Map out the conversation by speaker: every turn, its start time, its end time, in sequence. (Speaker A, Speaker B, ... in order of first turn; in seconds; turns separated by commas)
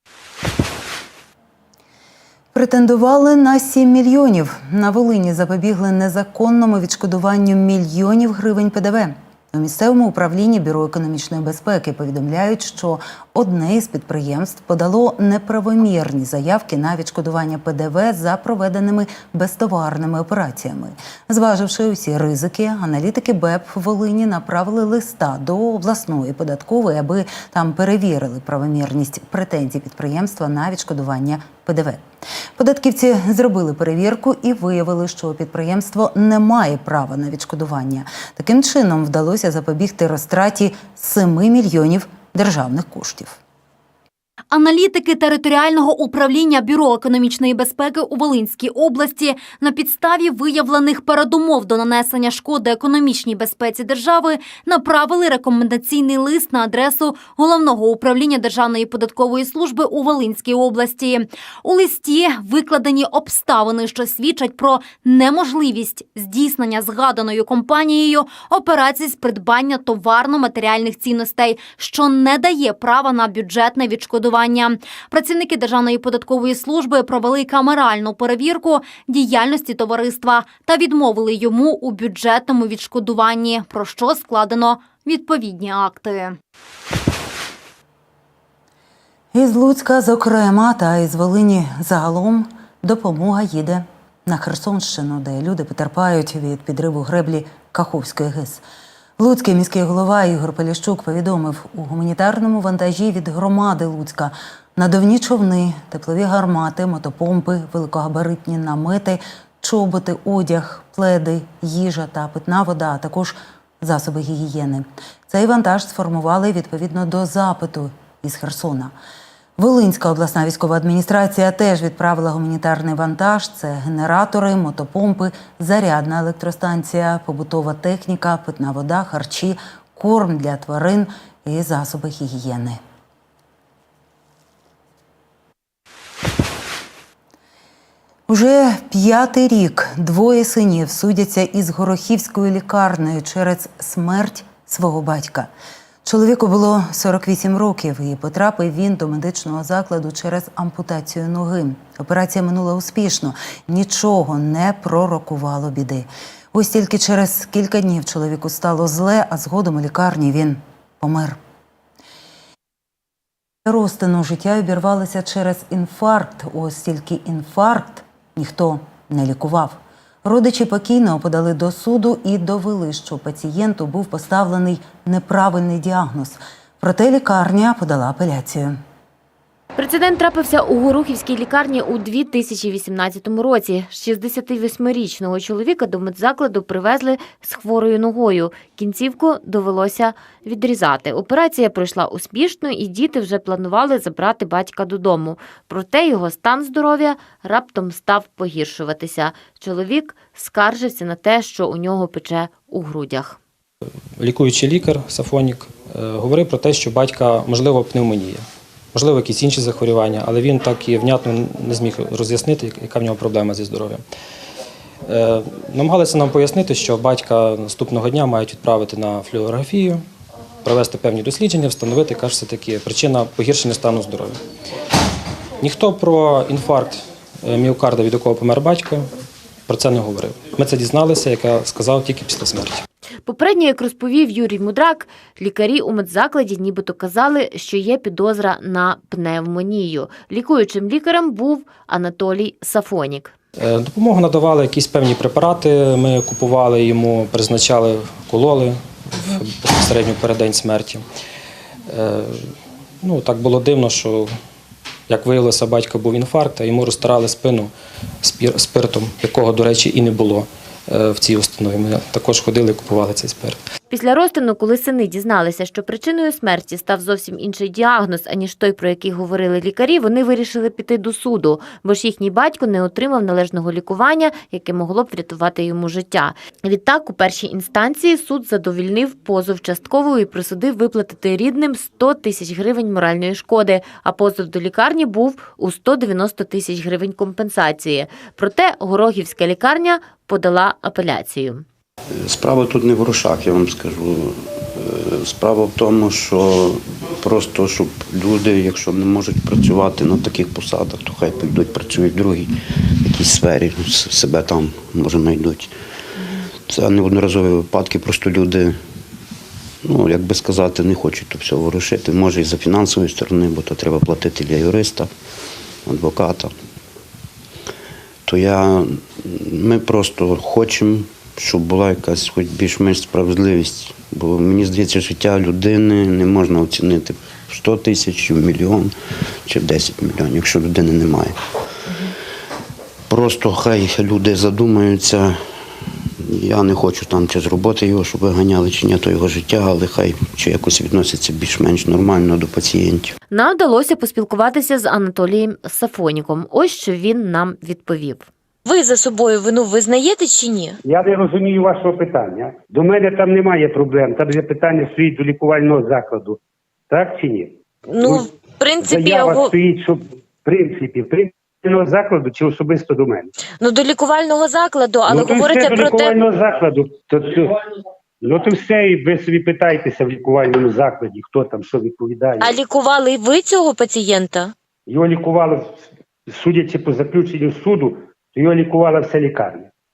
Speaker A: 2.5-32.0, Speaker A: 32.6-43.4, Speaker B: 44.5-86.4, Speaker A: 89.3-98.6, Speaker A: 99.2-118.9, Speaker A: 119.6-132.8, Speaker A: 138.3-145.5, Speaker A: 146.0-161.4, Speaker A: 163.6-178.8, Speaker C: 179.8-203.4, Speaker D: 204.2-214.0, Speaker D: 215.1-220.0, Speaker D: 220.6-224.4, Speaker D: 225.6-229.1, Speaker D: 229.7-232.8, Speaker C: 233.2-243.3, Speaker D: 243.6-251.0, Speaker D: 251.9-254.3, Speaker D: 255.1-257.7, Speaker D: 258.2-263.6, Speaker C: 263.9-291.6, Speaker E: 292.1-305.7, Speaker E: 306.7-308.8, Speaker E: 309.8-315.1, Speaker E: 315.9-316.5, Speaker E: 318.3-331.4, Speaker E: 333.1-335.4, Speaker E: 336.2-343.1, Speaker C: 343.3-348.3, Speaker F: 348.6-350.8, Speaker G: 350.9-356.4, Speaker G: 356.9-358.2, Speaker F: 357.9-359.5, Speaker G: 358.8-363.3, Speaker F: 363.6-366.2, Speaker G: 365.1-367.6, Speaker G: 368.2-372.6, Speaker F: 372.4-374.5, Speaker G: 374.9-379.7